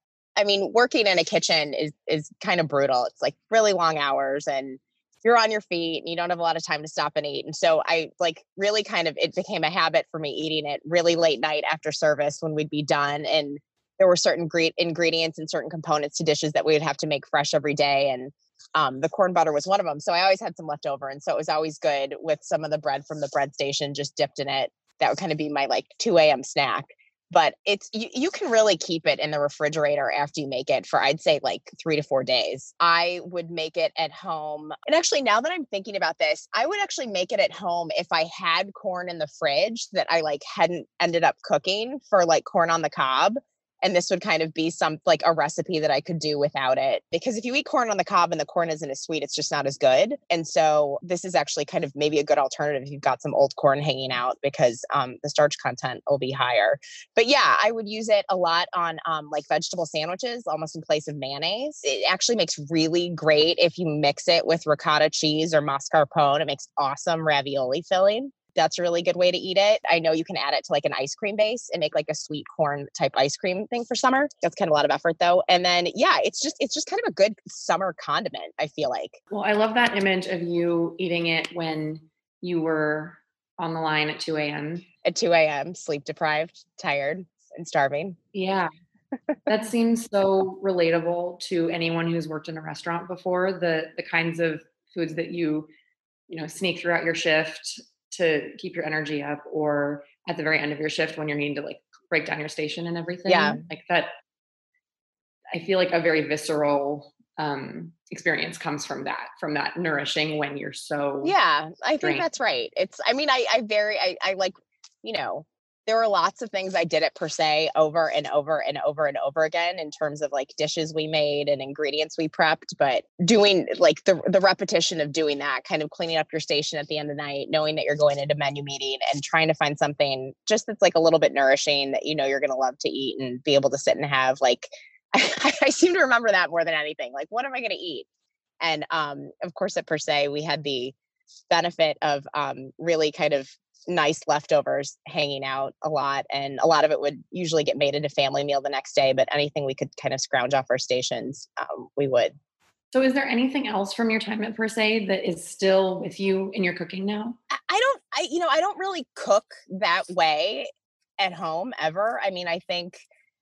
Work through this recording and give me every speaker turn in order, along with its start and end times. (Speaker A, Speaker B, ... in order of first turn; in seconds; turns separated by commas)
Speaker A: 0.4-79.2, Speaker B: 79.3-84.8, Speaker A: 85.0-88.2, Speaker B: 88.3-88.7, Speaker B: 89.5-95.7, Speaker B: 96.3-104.1, Speaker A: 103.3-103.6, Speaker B: 105.5-111.3, Speaker A: 111.2-138.1, Speaker A: 138.6-140.9, Speaker A: 141.5-152.3, Speaker B: 152.9-157.4, Speaker A: 157.5-160.7, Speaker A: 161.2-163.0